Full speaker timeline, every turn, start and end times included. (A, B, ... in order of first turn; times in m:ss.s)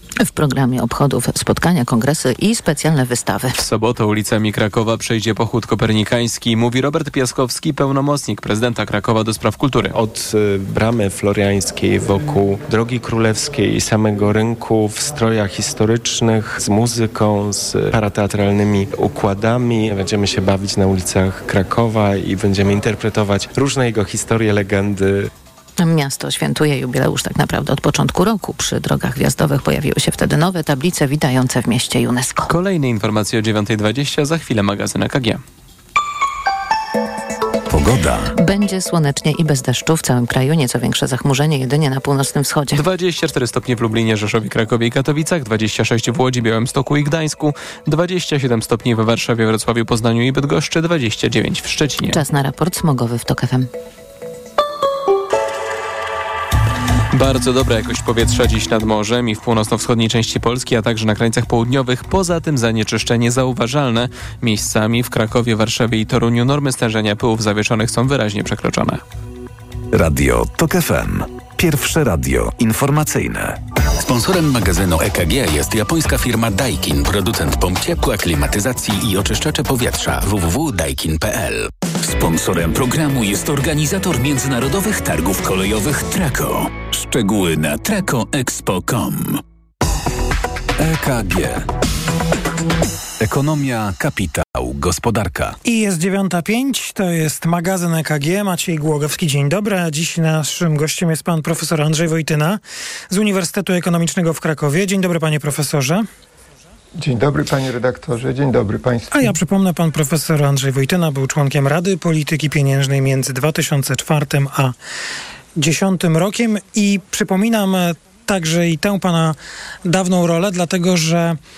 0:00.3-0:03.5 A
0:03.6-0:10.0 B
0:09.9-0:25.3 C
0:25.8-0:32.5 A
0:32.5-0:35.4 B
0:37.7-0:38.4 D
0:38.4-0:42.8 A
0:42.7-0:52.2 B
0:52.1-0:53.7 A
0:57.1-1:09.0 B
1:09.9-1:13.6 D
1:14.0-1:29.4 E
1:30.8-1:31.7 D
1:33.2-1:35.6 D
1:35.6-1:46.1 F
1:47.0-1:49.3 G
1:49.1-1:54.8 F
1:55.6-2:01.4 F